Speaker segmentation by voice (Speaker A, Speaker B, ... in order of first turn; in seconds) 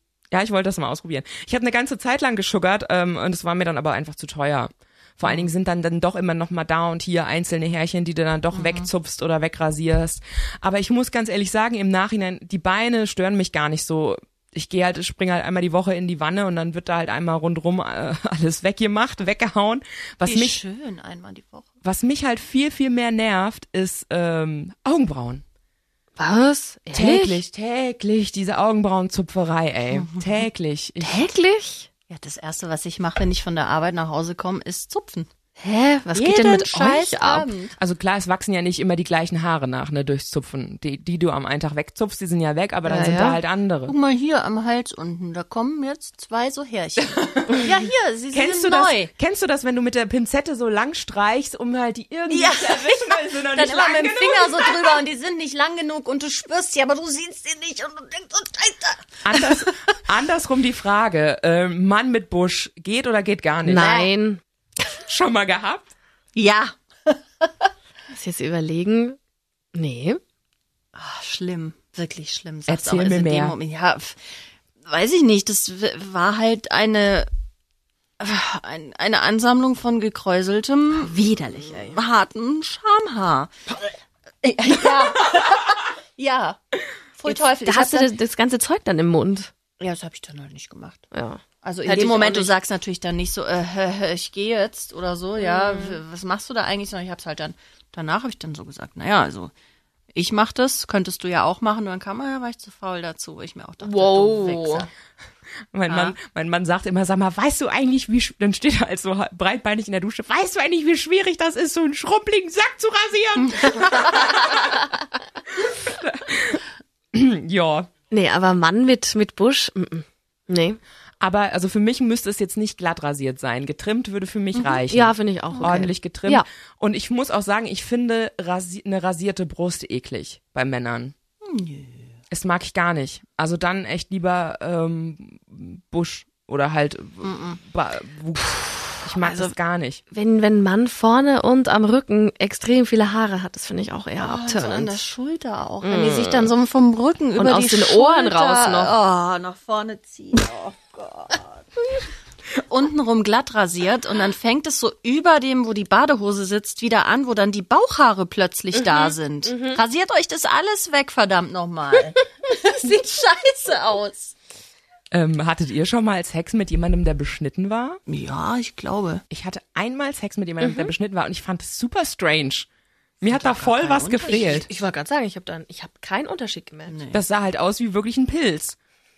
Speaker A: 0.3-20.6, 21.8-25.4, 26.9-31.3, 37.8-43.9, 47.1-47.6, 48.3-55.0, 59.2-64.0, 65.0-65.9, 72.7-73.6, 105.7-114.8, 115.5-116.6, 117.1-117.9, 121.2-131.1, 132.3-140.0, 165.1-168.0, 169.3-172.7, 173.2-174.7, 177.1-178.8
Speaker B: 5.2-5.5, 8.5-8.9, 20.2-21.7, 29.9-30.2, 32.1-35.3, 36.1-37.8, 43.9-49.1, 52.3-59.6, 63.8-64.1, 66.3-67.7, 70.9-77.3, 78.2-86.6, 87.2-88.1, 89.8-91.0, 91.6-99.5, 100.1-104.9, 105.9-106.2, 113.4-114.1, 124.5-124.8, 125.5-125.8, 131.4-132.2, 137.2-137.6, 144.2-151.8, 152.6-164.3, 168.1-169.2, 173.2-174.7, 176.8-177.2
Speaker C: 26.2-27.4, 31.0-31.9, 35.6-37.5, 42.8-43.4, 63.6-64.4, 68.1-69.2, 69.7-70.2, 81.0-81.9, 87.2-89.5, 91.1-92.5, 95.4-96.0, 103.8-104.9, 118.1-120.8, 124.9-126.5, 139.2-139.5, 140.1-145.0, 145.8-146.5, 147.3-148.9, 158.7-159.8, 170.6-170.9, 174.2-177.0